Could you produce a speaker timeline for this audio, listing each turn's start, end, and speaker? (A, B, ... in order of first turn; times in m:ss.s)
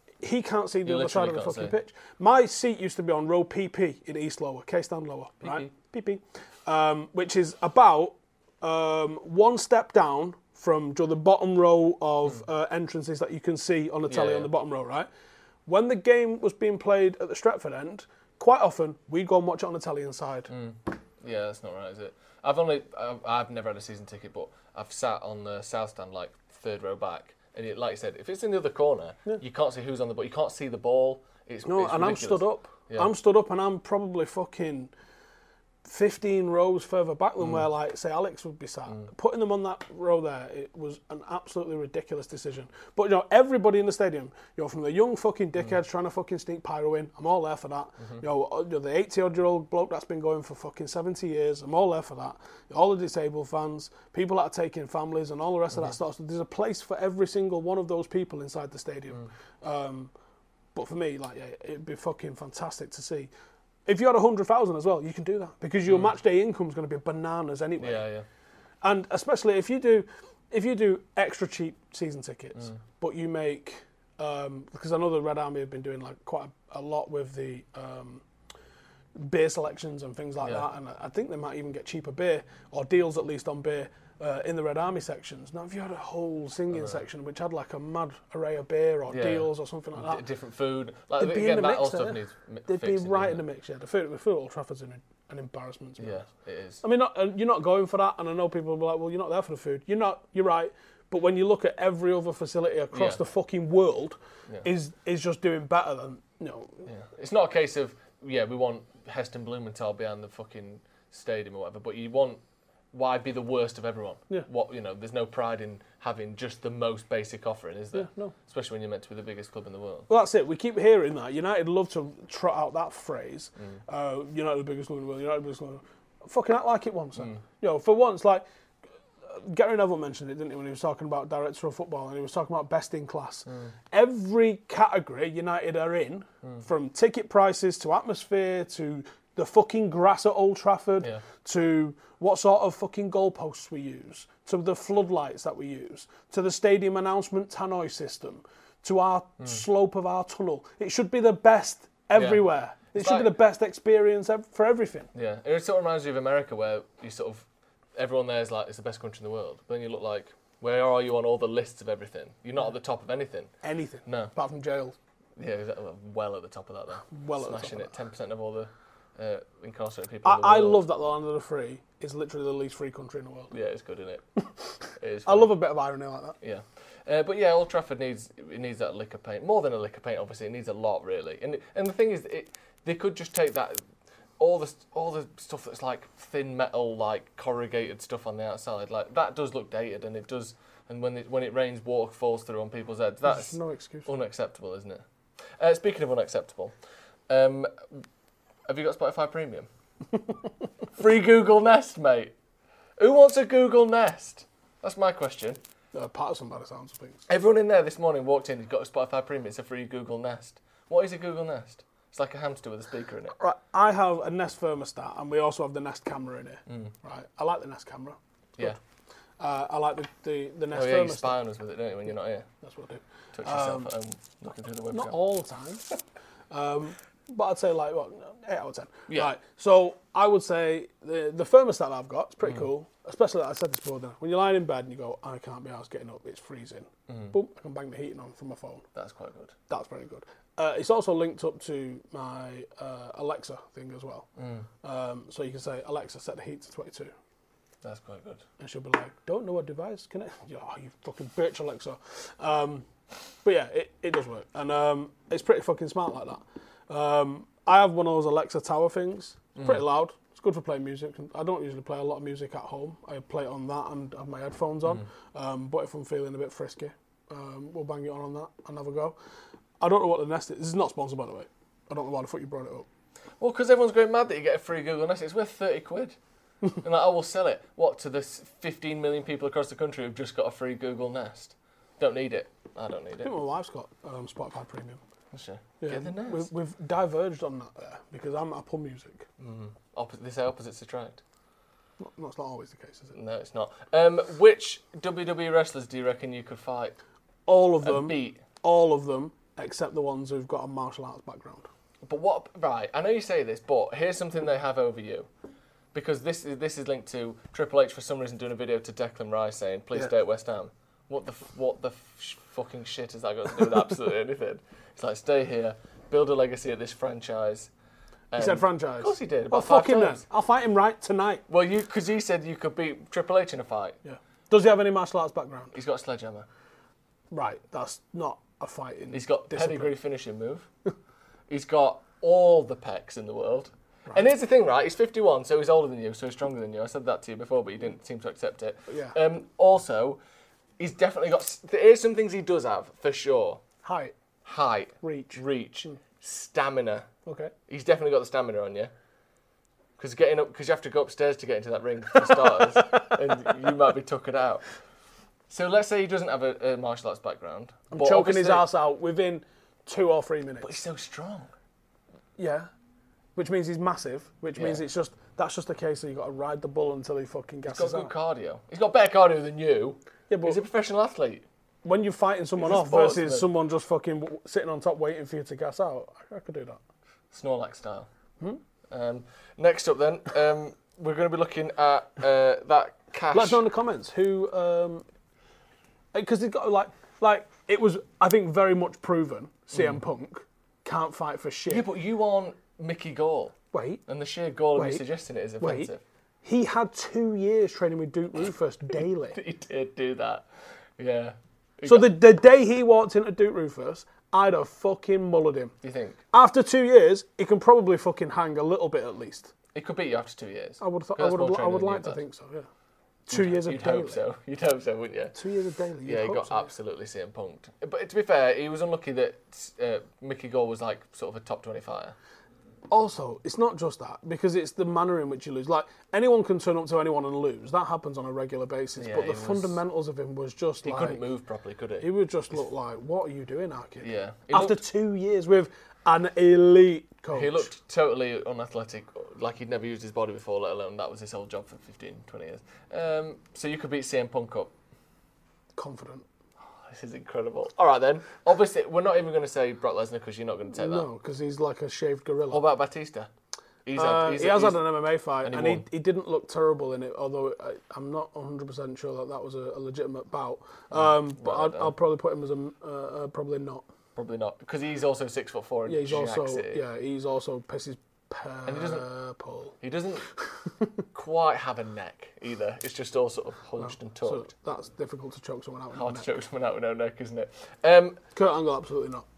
0:00.2-0:15.1 A
0:00.8-0:01.8 B
0:05.4-0:05.7 B
0:14.1-0:14.5 B
0:15.6-0:20.5 A
0:20.5-0:33.1 B
0:31.6-0:34.9 A
0:35.8-1:00.1 A
0:37.4-0:37.6 B
1:00.7-1:03.3 A
1:03.8-1:08.0 A
1:07.8-1:08.2 B
1:08.8-1:18.2 A
1:19.2-1:30.2 A
1:20.4-1:20.6 B
1:26.7-1:27.0 B
1:29.1-1:33.4 B
1:31.2-1:36.2 A
1:36.0-1:36.8 B
1:36.8-1:46.8 A
1:42.9-1:43.2 B
1:46.8-1:52.4 B
1:52.9-2:00.1 B
1:57.9-1:58.3 A
2:00.1-2:08.4 A
2:03.6-2:03.8 B
2:07.2-2:07.4 B
2:09.2-2:35.1 A
2:13.5-2:13.7 B
2:32.1-2:33.3 B
2:35.1-2:43.5 B
2:43.6-2:44.9 A
2:44.0-2:44.3 B
2:45.4-2:50.8 B
2:47.1-2:47.9 A
2:50.2-2:53.5 A
2:53.5-2:55.6 B
2:55.2-2:56.4 A
2:56.4-3:03.8 B
3:04.4-3:16.7 B
3:13.2-3:14.1 A
3:17.3-3:18.0 B
3:18.7-3:19.7 B
3:21.0-3:22.3 B
3:23.0-3:25.6 B
3:25.9-3:27.2 A
3:27.3-3:33.3 B
3:33.4-3:38.8 A
3:36.7-3:36.9 B
3:39.4-3:41.4 A
3:40.7-3:42.5 B
3:42.6-3:43.9 A
3:43.3-3:45.2 B
3:44.9-3:45.8 A
3:46.5-3:58.8 A
3:57.1-3:57.3 B
3:58.9-3:59.5 B
3:59.7-4:04.3 A
4:04.4-4:04.7 B
4:04.8-4:07.1 A
4:07.8-4:08.4 B
4:08.6-4:12.9 A
4:13.4-4:29.2 A
4:29.8-4:32.9 A
4:33.4-4:36.2 B
4:36.8-4:43.3 B
4:43.2-4:45.0 A
4:45.3-4:46.5 B
4:45.8-4:49.3 A
4:49.4-4:51.2 B
4:52.0-4:53.1 A
4:53.1-4:57.0 B
4:57.5-5:01.7 A
4:57.8-4:58.4 B
5:02.0-5:05.3 B
5:05.9-5:17.7 B
5:18.3-5:20.2 B
5:18.4-5:21.4 A
5:21.5-5:24.0 B
5:24.0-5:25.7 A
5:25.7-5:26.4 B
5:27.3-5:29.9 A
5:29.1-5:30.7 B
5:31.5-5:40.2 B
5:38.9-5:39.2 A
5:40.8-5:43.6 B
5:43.8-5:44.1 A
5:44.4-5:47.1 B
5:45.0-5:45.9 A
5:47.2-5:47.5 A
5:47.7-5:48.9 B
5:50.0-5:54.8 B
5:52.2-5:53.1 A
5:55.5-5:58.7 B
5:57.9-6:00.7 A
6:00.6-6:01.5 B
6:02.4-6:02.7 A
6:03.4-6:08.1 A
6:04.6-6:04.8 B
6:07.7-6:11.4 B
6:10.3-6:10.6 A
6:11.8-6:16.8 A
6:12.6-6:13.4 B
6:17.3-6:18.1 B
6:18.9-6:23.6 B
6:23.3-6:25.0 A
6:26.1-6:31.8 A
6:29.7-6:30.0 B
6:31.7-6:33.6 B
6:33.7-6:34.0 A
6:34.1-6:36.0 B
6:34.7-6:35.0 A
6:35.6-6:35.9 A
6:36.4-6:39.4 A
6:39.3-6:42.1 B
6:41.8-6:45.7 A
6:45.8-6:46.2 B
6:46.3-6:49.5 A
6:49.7-6:52.2 B
6:50.8-6:52.7 A
6:53.3-6:54.2 A
6:53.3-6:55.4 B
6:55.3-6:56.7 A
6:56.0-7:02.2 B
7:02.9-7:11.2 A
7:09.0-7:09.8 B
7:10.8-7:12.1 B
7:12.0-7:17.7 A
7:14.0-7:14.8 B
7:17.3-7:24.7 B
7:25.8-7:26.2 A
7:26.8-7:31.1 B
7:30.7-7:32.6 A
7:32.5-7:33.3 B
7:33.8-7:35.8 B
7:34.0-7:43.8 A
7:40.9-7:41.9 B
7:44.2-7:46.8 B
7:45.9-7:49.7 A
7:48.6-7:49.1 B
7:49.8-7:50.3 B
7:51.1-7:54.5 B
7:53.8-7:56.3 A
7:55.9-7:58.2 B
7:58.3-7:59.2 A